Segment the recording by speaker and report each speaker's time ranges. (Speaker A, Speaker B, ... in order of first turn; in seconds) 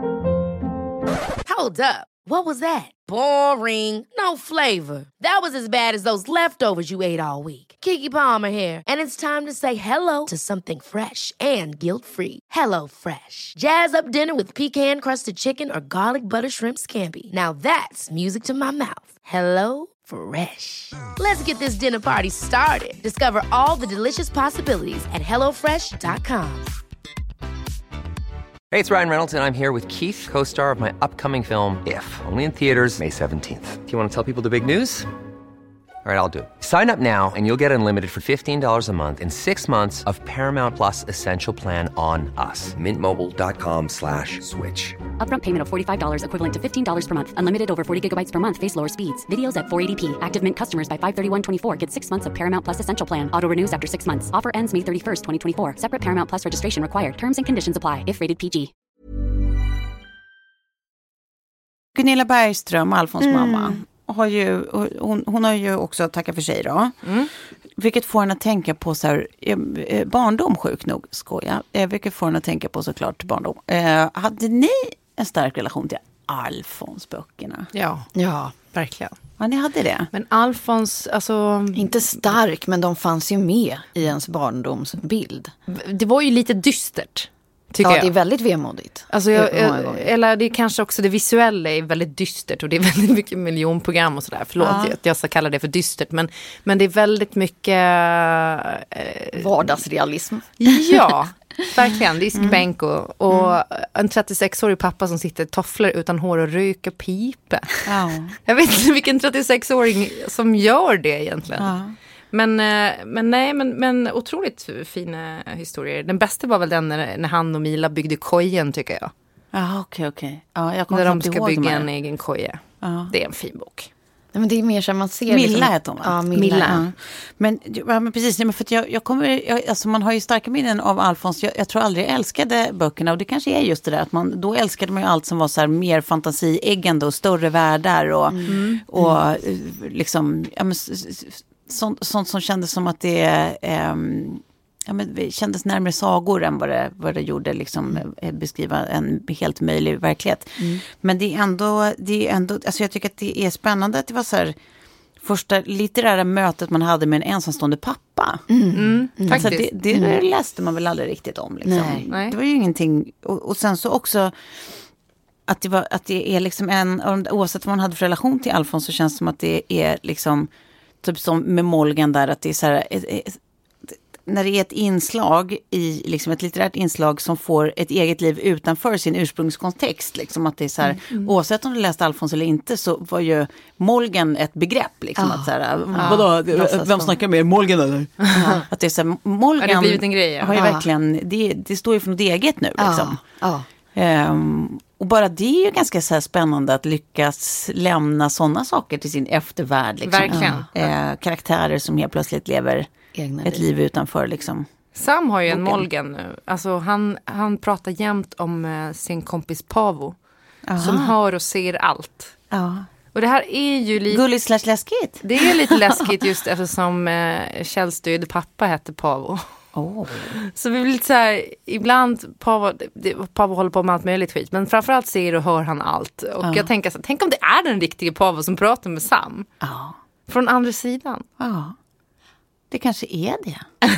Speaker A: 1.5-26.8
Speaker B: 28.7-35.1, 36.0-45.0
Speaker C: 45.2-58.7
Speaker D: 61.9-67.1, 67.8-77.7, 79.4-80.1, 94.7-94.9, 107.8-108.4, 111.6-112.0, 119.5-121.9, 122.8-123.1, 125.3-154.6, 155.2-158.5, 159.3-164.8, 165.5-170.5, 171.0-193.2, 193.9-202.9, 203.4-204.7, 205.5-205.9, 210.7-211.1, 212.5-212.9, 214.1-215.2, 219.8-220.3, 226.4-226.7, 229.6-230.0, 231.4-231.8, 232.7-233.7
Speaker E: 63.2-63.8, 78.2-78.5, 81.8-85.5, 87.8-90.1, 99.3-100.5, 124.3-126.8, 138.3-139.2, 158.5-160.2, 161.7-162.0, 185.2-187.2, 190.6-190.8, 192.8-193.7, 203.2-203.6
Speaker F: 67.0-67.3, 77.7-79.2, 80.1-82.2, 85.7-88.1, 89.1-99.8, 100.6-107.9, 108.5-111.8, 112.3-119.1, 120.9-123.9, 126.3-126.8, 138.5-138.8, 158.7-159.7, 162.1-162.4, 189.6-190.6, 200.1-200.9, 204.9-210.2, 210.8-212.4, 213.1-214.2, 215.2-219.5, 220.3-229.5, 230.3-231.2